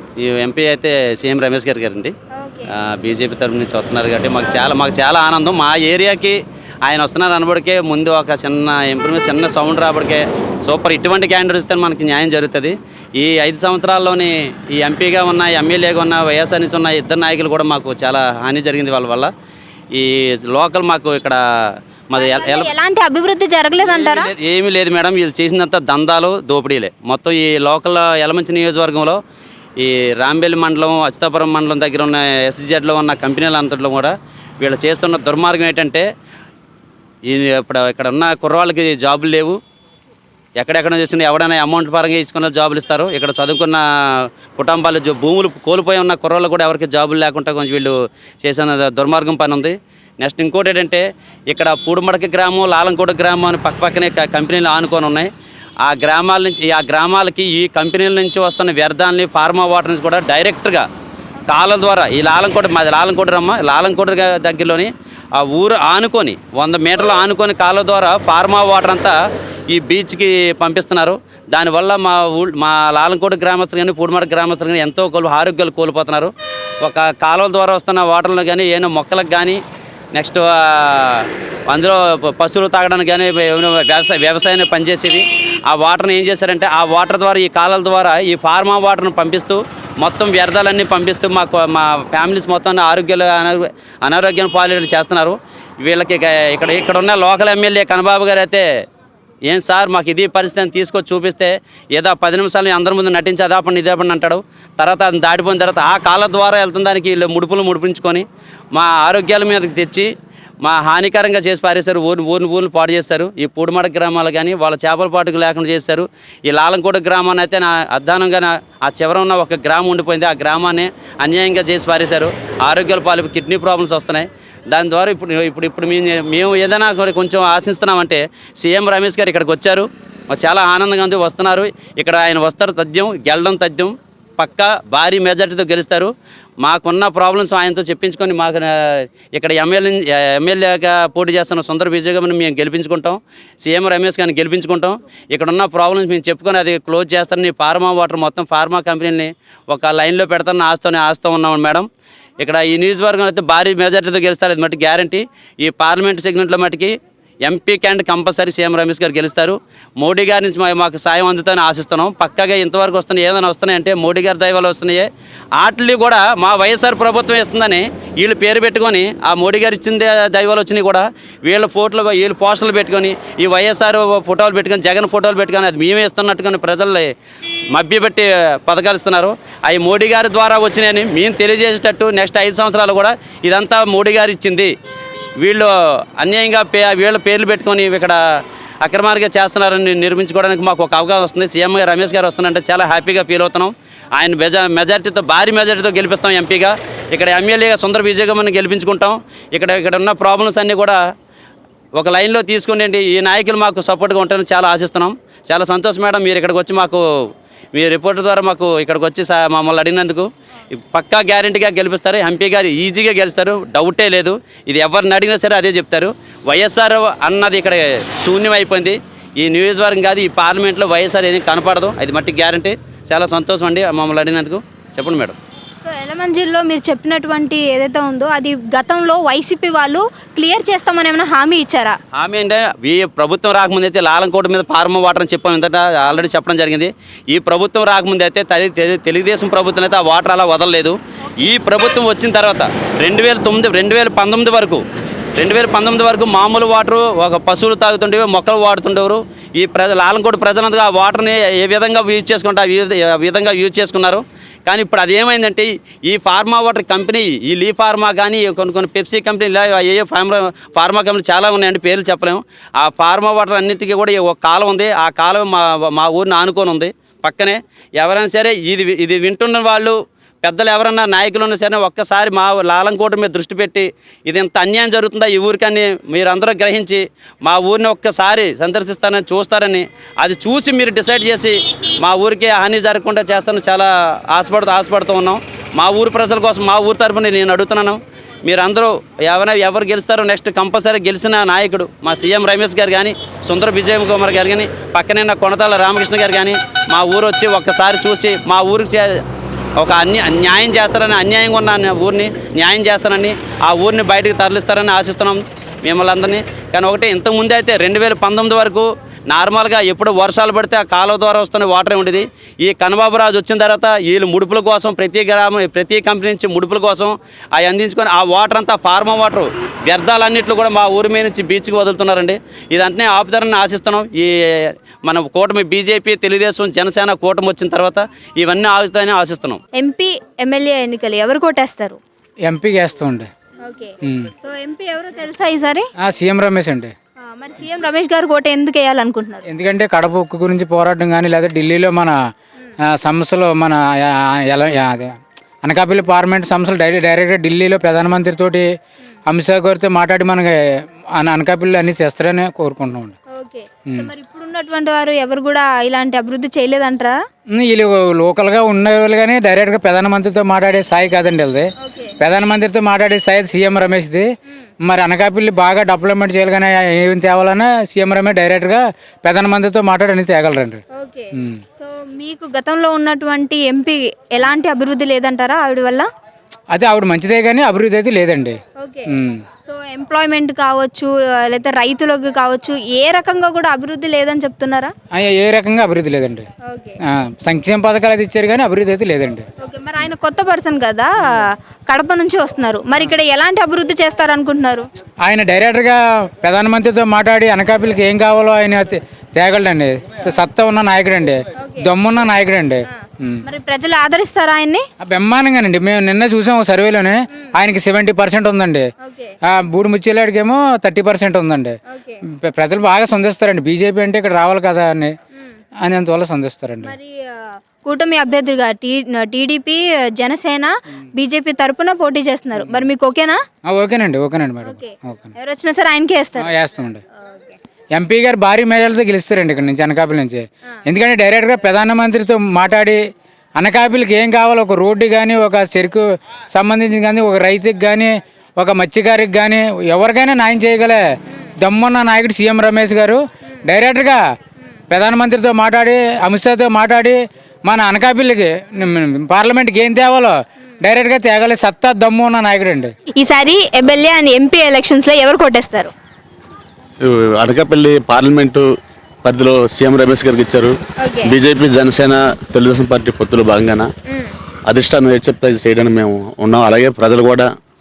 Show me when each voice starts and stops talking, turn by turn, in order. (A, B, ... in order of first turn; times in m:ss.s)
0:00.2-0:02.1 A
0:02.3-0:02.7 B
0:02.8-0:19.3 A
0:04.4-0:04.7 B
0:19.9-0:21.4 A
0:22.1-0:22.7 A
0:22.2-0:24.3 B
0:23.8-0:29.2 A
0:29.8-0:36.0 A
0:37.3-0:39.6 A
0:40.6-0:43.8 A
0:44.6-0:55.3 A
0:55.9-1:00.9 A
1:01.4-1:01.7 B
1:01.5-1:09.1 A
1:09.7-1:16.3 A
1:16.8-1:19.6 A
1:20.2-1:38.6 A
1:39.5-1:50.1 A
1:50.6-2:31.9 A
2:32.4-2:45.1 A
2:45.6-2:57.1 A
2:57.7-3:04.7 A
3:05.4-3:08.2 A
3:08.8-3:21.0 A
3:22.0-3:27.0 A
3:27.7-3:30.3 A
3:30.9-3:45.4 A
3:45.8-3:52.0 B
3:52.2-4:04.8 A
4:05.4-4:59.2 A
4:59.8-5:29.6 A
5:29.8-5:32.0 B
5:32.4-5:33.3 C
5:33.6-5:35.9 B
5:34.0-5:34.3 C
5:36.0-5:36.9 C
5:37.2-5:39.5 B
5:39.5-5:42.2 C
5:42.9-5:48.7 C
5:49.3-5:50.6 C
5:51.2-5:53.2 C
5:53.3-5:57.2 B
5:57.6-6:04.2 C
6:01.8-6:02.2 B
6:04.8-6:10.8 C
6:10.9-6:16.1 B
6:16.7-6:19.4 C
6:18.8-6:24.9 B
6:25.2-6:26.5 C
6:26.6-6:27.0 B
6:27.1-6:29.5 C
6:29.6-6:34.8 B
6:35.2-6:43.4 C
6:41.6-6:41.9 B
6:42.9-6:44.8 B
6:45.0-6:48.9 C
6:49.0-6:49.4 B
6:49.5-6:51.8 C
6:51.9-6:52.2 B
6:52.4-6:55.2 C
6:55.8-6:57.0 C
6:56.8-7:03.4 B
7:03.7-7:05.3 C
7:04.6-7:06.5 B
7:06.4-7:07.0 C
7:07.2-7:07.6 B
7:07.9-7:13.0 C
7:13.6-7:21.0 C
7:21.6-7:24.2 C
7:24.9-7:32.9 C
7:33.2-7:35.9 B
7:37.0-7:38.7 D
7:39.2-7:43.9 D
7:41.0-7:41.4 B
7:44.1-7:44.3 B
7:44.7-7:47.5 D